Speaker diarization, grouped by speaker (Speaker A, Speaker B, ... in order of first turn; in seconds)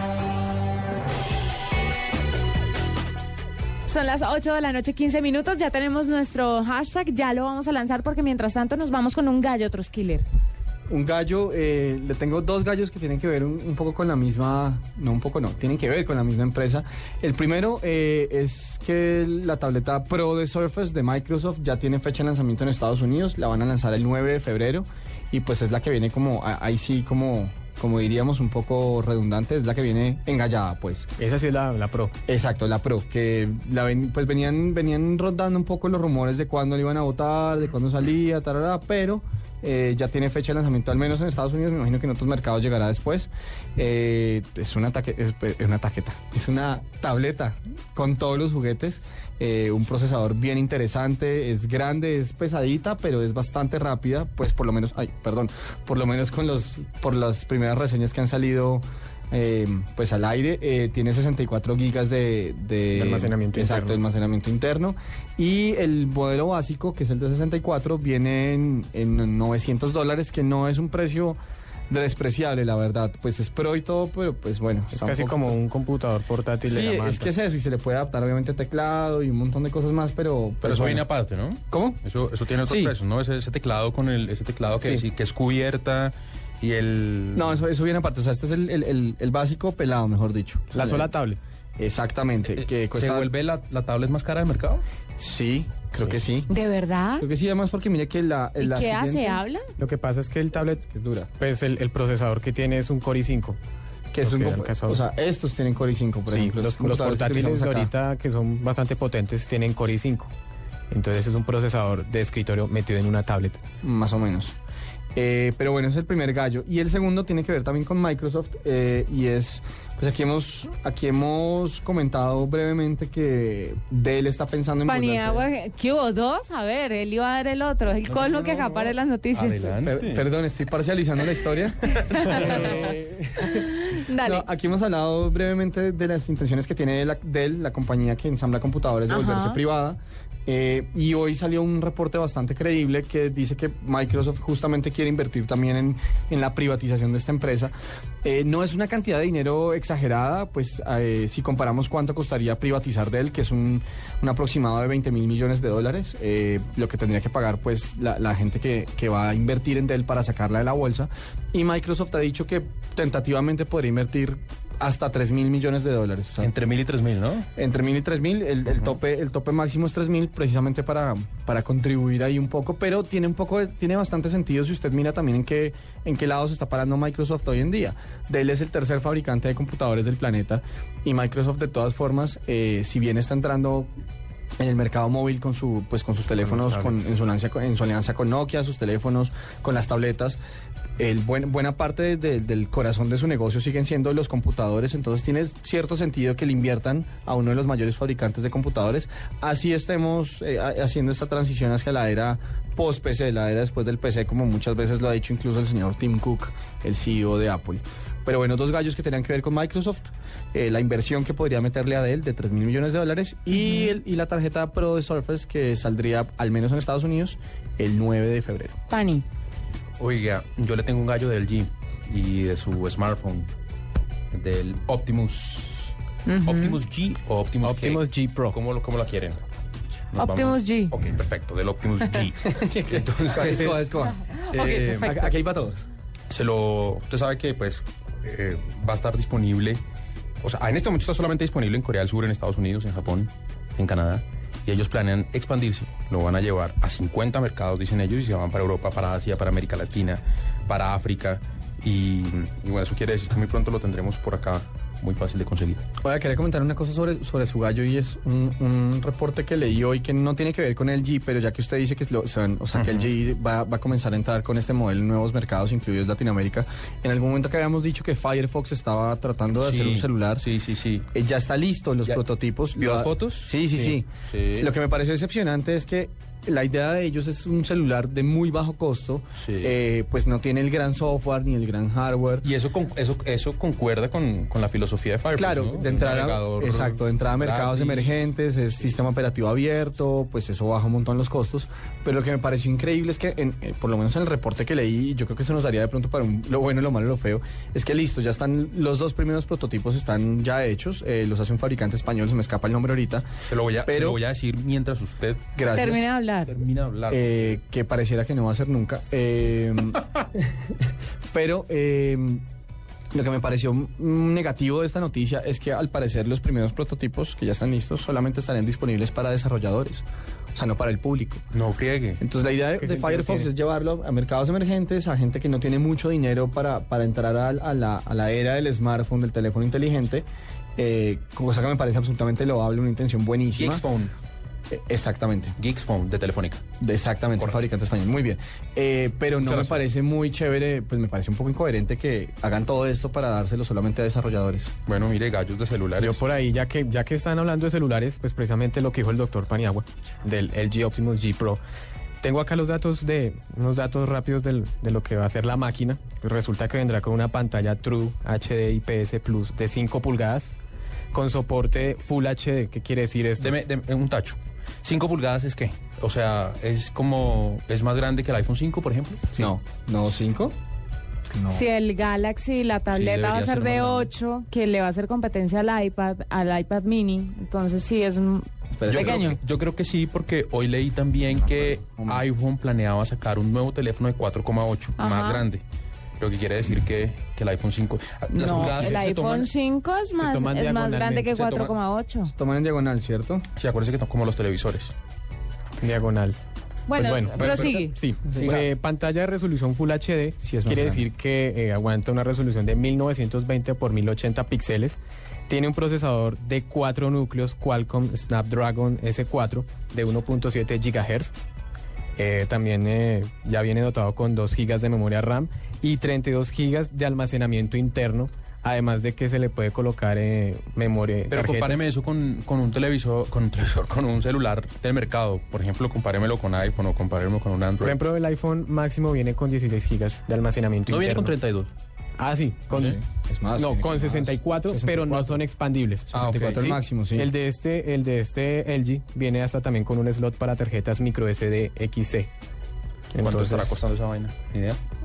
Speaker A: 3.9-10.2, 96.5-97.3, 98.6-99.6, 124.9-129.7, 132.0-134.4, 139.1-139.6, 213.5-213.9, 218.9-219.2, 226.3-226.8, 230.2-230.9, 234.3-235.3, 305.7-306.6, 371.5-379.4, 385.0-385.5, 388.3-392.3, 396.9-397.9
Speaker B: 10.9-31.1, 32.3-71.4, 71.9-75.6, 76.6-81.1, 81.7-82.0, 82.7-82.9, 87.3-91.1, 91.8-93.3, 95.2-96.5, 97.2-99.4, 100.8-101.3, 104.1-107.9, 113.8-114.5, 115.2-125.5, 129.8-133.6, 134.2-166.5, 167.6-183.9, 184.6-190.4, 191.0-218.8, 232.4-235.8, 256.0-270.4, 271.1-282.4, 285.4-303.3, 303.9-304.2, 305.6-306.1, 307.1-310.2, 311.3-312.4, 313.1-321.5, 322.2-330.3, 330.8-333.9, 334.7-335.6, 336.8-344.7, 369.3-370.6, 378.7-379.2, 381.5-382.2, 392.3-393.5, 398.3-398.7, 400.4-401.1, 432.7-435.4, 436.1-437.3
Speaker C: 31.2-32.1, 62.9-64.0, 74.9-77.3, 90.7-91.4, 95.9-96.2, 99.8-100.8, 101.4-103.6, 104.2-105.0, 106.3-110.3, 110.9-113.6, 186.4-187.1, 227.6-228.6, 273.7-274.0, 322.8-323.5, 346.0-351.6, 352.2-360.5, 361.1-363.6, 390.2-391.7, 395.8-396.4, 397.0-411.3, 412.2-421.8, 427.8-431.3, 432.2-433.0, 433.6-442.3, 443.1-443.8
Speaker D: 80.6-87.5, 92.6-94.8, 128.1-130.3, 166.4-167.5, 220.0-223.5, 224.3-229.4, 230.1-233.9, 234.5-235.2, 236.3-239.8, 240.4-255.8, 262.8-263.1, 269.6-271.1, 272.8-273.5, 274.3-274.7, 279.4-279.7, 282.4-288.3, 303.4-305.5, 306.5-307.6, 321.5-322.2, 333.6-334.1, 335.6-336.6, 339.4-339.8, 344.9-346.2, 363.4-369.4, 372.9-374.1, 378.9-385.6, 386.2-389.5, 393.6-394.9, 421.3-428.0, 430.9-431.7, 436.1-436.7, 443.2-444.8